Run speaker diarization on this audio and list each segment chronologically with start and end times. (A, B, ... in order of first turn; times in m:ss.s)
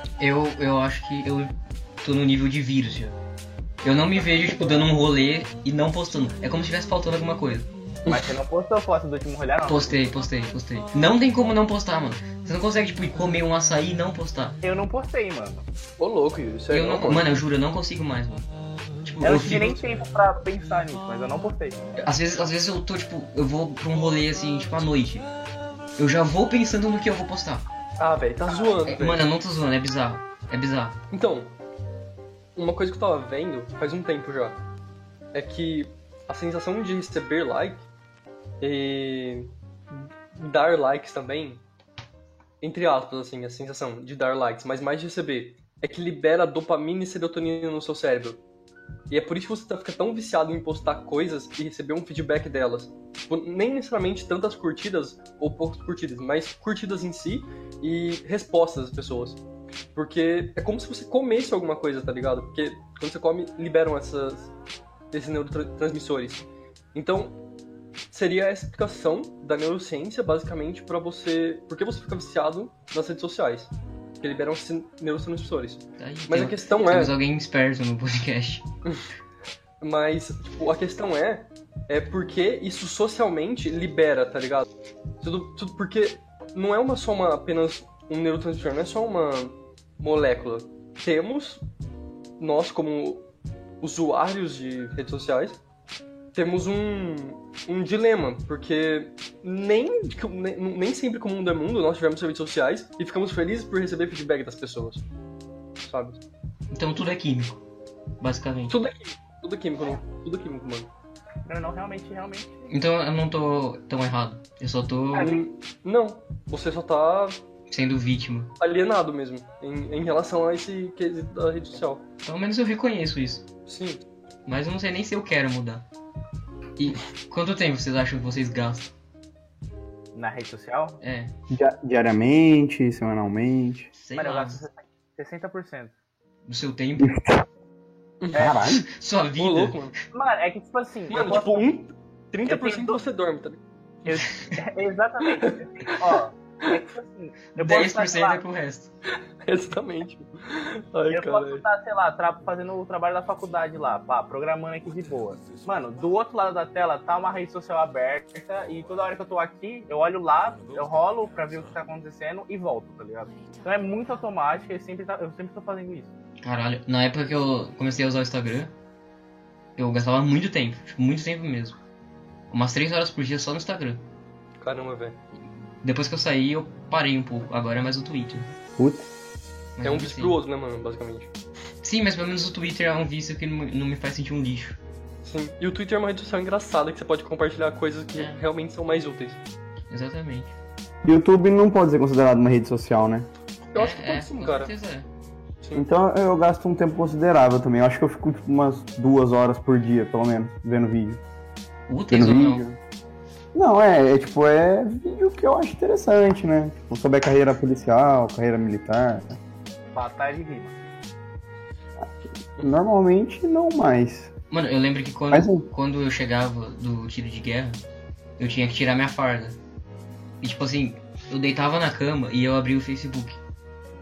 0:00.2-0:03.2 A
0:03.8-0:07.7 A
0:08.1-0:10.0 B
0:09.6-0:14.6 A
0:14.6-0:15.6 B
0:16.0-0:17.3 C
0:16.7-0:18.5 A
0:19.0-0:19.9 A
0:19.2-0:21.8 B
0:22.0-0:25.3 A
0:26.0-0:27.6 A
0:28.0-0:29.2 C
0:28.5-0:28.8 B
0:28.8-0:31.0 A
0:31.1-0:31.5 C
0:32.6-0:34.6 C
0:35.3-0:37.8 C
0:38.6-0:41.6 C
0:42.6-0:48.4 C
0:49.1-0:59.4 C
0:59.9-1:04.5 C
1:05.1-1:07.4 C
1:08.1-1:17.1 C
1:16.0-1:18.6 A
1:19.8-1:24.7 C
1:25.2-1:31.6 C
1:32.4-1:33.3 C
1:33.8-1:35.6 C
1:36.3-1:45.0 C
1:45.8-1:46.2 C
1:46.7-1:47.6 A
1:48.2-1:48.7 A
1:48.7-1:50.9 C
1:51.5-1:52.5 B
1:52.7-1:55.4 A
1:55.1-1:57.4 C
1:57.7-1:58.5 A
1:58.6-2:02.0 C
2:02.2-2:03.4 A
2:03.6-2:04.0 C
2:04.4-2:05.8 A
2:06.8-2:08.9 A
2:10.1-2:11.0 B
2:11.0-2:11.3 A
2:11.5-2:13.9 D
2:13.9-2:14.6 A
2:14.2-2:15.9 B
2:16.4-2:17.1 A
2:17.0-2:17.4 D
2:18.2-2:18.5 C
2:18.3-2:18.6 B
2:18.3-2:18.8 D
2:18.6-2:19.9 A
2:19.4-2:19.9 C
2:20.1-2:21.7 B
2:21.1-2:23.6 C
2:22.4-2:23.0 B
2:24.0-2:28.4 B
2:25.4-2:25.9 C
2:27.6-2:28.9 A
2:29.4-2:31.6 C
2:31.1-2:46.1 B
2:46.4-2:48.7 A
2:49.8-2:51.8 A
2:52.5-2:54.0 A
2:54.6-2:55.2 C
2:55.8-2:58.5 A
2:58.8-2:59.1 D
2:59.8-3:00.4 A
2:59.8-3:01.3 C
3:01.8-3:04.8 A
3:05.2-3:09.4 C
3:08.1-3:08.4 A
3:09.9-3:10.5 A
3:11.0-3:13.3 D
3:13.7-3:14.7 C
3:13.8-3:15.1 A
3:15.7-3:21.2 D
3:21.9-3:22.6 A
3:22.1-3:22.8 D
3:23.5-3:29.4 D
3:29.9-3:30.8 B
3:32.6-3:34.3 D
3:34.5-3:37.8 A
3:35.3-3:35.7 D
3:38.4-3:39.6 A
3:40.4-3:43.4 A